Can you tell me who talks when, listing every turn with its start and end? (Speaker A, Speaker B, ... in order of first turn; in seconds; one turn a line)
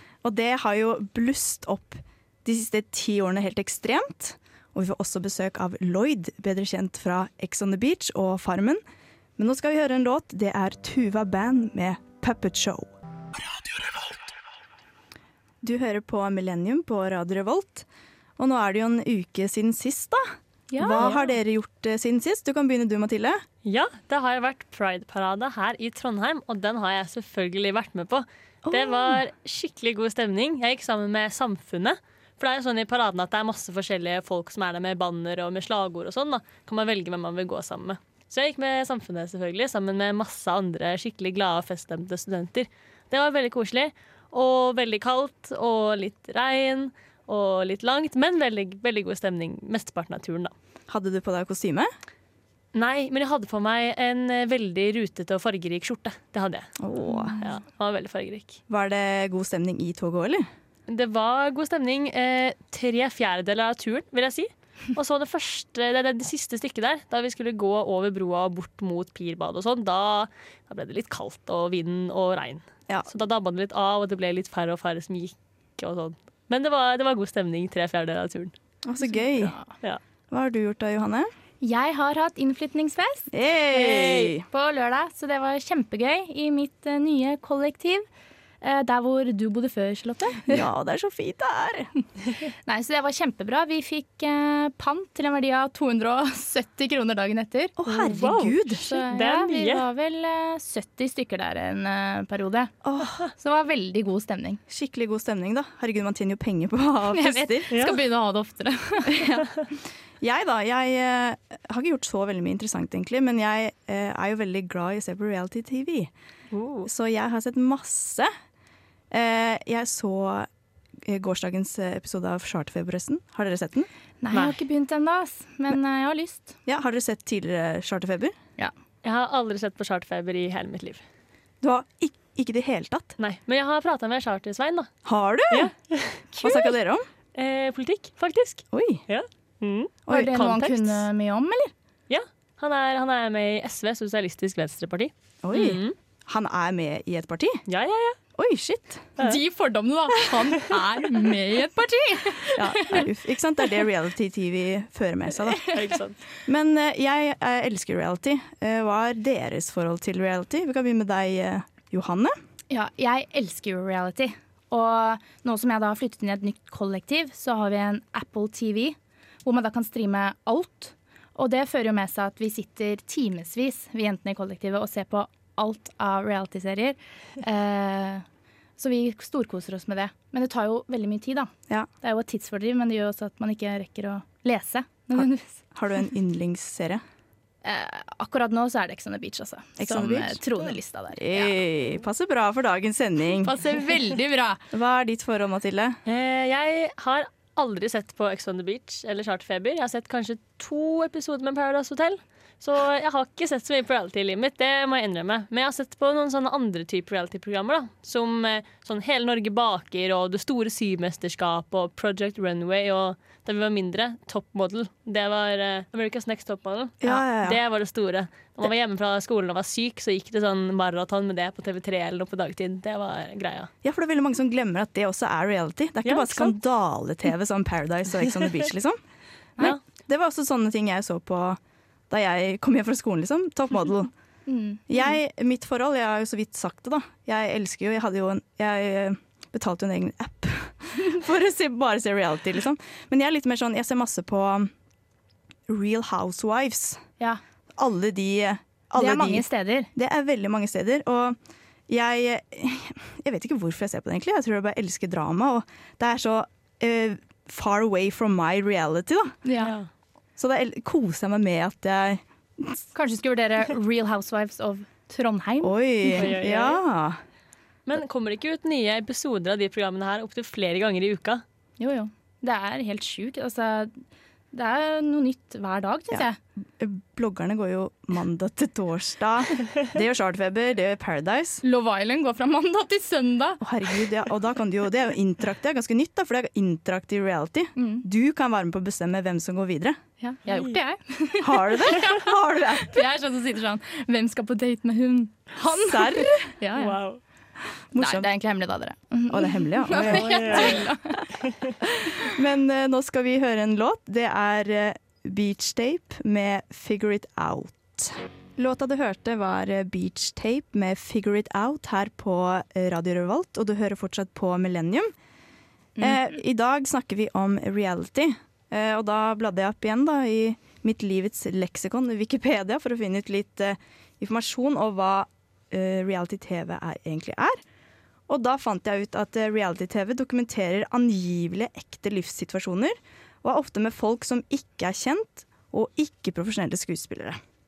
Speaker A: 0.2-8.8
Speaker A: 9.4-12.9
Speaker A: 15.6-17.9
Speaker A: 18.4-23.4
Speaker B: 20.7-21.2
Speaker C: 23.6-50.5
Speaker A: 28.6-29.2
Speaker A: 50.9-51.9
Speaker C: 52.7-56.7
Speaker A: 56.8-57.5
Speaker B: 57.1-57.4
Speaker C: 57.4-58.6
Speaker A: 58.7-60.5
Speaker C: 60.9-78.5
Speaker A: 78.8-79.5
Speaker B: 79.4-79.7
Speaker A: 80.3-81.3
Speaker B: 81.6-83.3
Speaker A: 83.3-84.5
Speaker C: 83.7-84.4
Speaker B: 84.5-88.1
Speaker B: 88.6-90.6
Speaker A: 90.5-91.9
Speaker B: 92.7-97.7
Speaker A: 97.8-98.8
Speaker C: 97.9-99.8
Speaker B: 98.8-102.7
Speaker A: 102.8-103.2
Speaker B: 103.3-104.6
Speaker A: 104.7-107.7
Speaker B: 107.1-109.4
Speaker C: 107.7-108.0
Speaker A: 109.1-109.5
Speaker A: 110.2-116.1
Speaker C: 116.5-116.9
Speaker A: 116.8-118.3
Speaker A: 119.1-120.5
Speaker A: 121.0-123.9
Speaker B: 124.2-126.5
Speaker C: 124.3-124.6
Speaker A: 126.7-128.3
Speaker C: 129.0-131.0
Speaker A: 131.6-133.2
Speaker C: 133.2-134.9
Speaker A: 135.1-135.7
Speaker C: 135.5-136.6
Speaker A: 136.3-137.1
Speaker C: 137.3-141.1
Speaker A: 138.7-139.0
Speaker A: 140.1-140.3
Speaker B: 140.1-141.7
Speaker C: 142.1-145.9
Speaker A: 145.4-147.6
Speaker C: 147.7-148.2
Speaker A: 148.4-149.1
Speaker B: 149.2-153.1
Speaker A: 152.6-155.6
Speaker C: 155.7-156.2
Speaker A: 156.5-162.3
Speaker B: 162.7-178.2
Speaker B: 178.8-181.5
Speaker B: 182.0-185.6
Speaker A: 185.1-187.0
Speaker B: 187.6-191.6
Speaker A: 189.8-190.4
Speaker A: 191.1-193.6
Speaker B: 193.4-194.6
Speaker A: 194.7-196.0
Speaker C: 196.1-223.7
Speaker A: 217.0-217.6
Speaker A: 223.8-229.0
Speaker C: 226.1-226.6
Speaker A: 230.1-231.6
Speaker A: 232.1-234.1
Speaker B: 234.5-234.8
Speaker A: 234.9-244.7
Speaker A: 245.7-247.0
Speaker A: 247.8-251.4
Speaker B: 249.0-249.9
Speaker A: 251.9-259.4
Speaker B: 259.4-259.8
Speaker C: 259.6-259.9
Speaker A: 260.4-262.8
Speaker B: 262.9-266.3
Speaker A: 265.6-267.2
Speaker C: 266.1-266.8
Speaker C: 267.9-271.4
Speaker B: 271.8-274.0
Speaker B: 274.5-276.4
Speaker A: 276.8-281.6
Speaker B: 281.6-283.6
Speaker A: 283.6-290.0
Speaker B: 287.8-288.1
Speaker B: 290.2-292.3
Speaker C: 290.5-290.8
Speaker A: 291.4-293.0
Speaker B: 292.9-297.0
Speaker A: 295.6-296.5
Speaker C: 296.8-297.2
Speaker A: 297.9-298.3
Speaker B: 298.0-301.2
Speaker A: 299.3-301.2
Speaker C: 300.0-300.9
Speaker C: 301.4-301.8
Speaker A: 302.0-315.1
Speaker A: 316.0-327.6
Speaker A: 328.3-337.4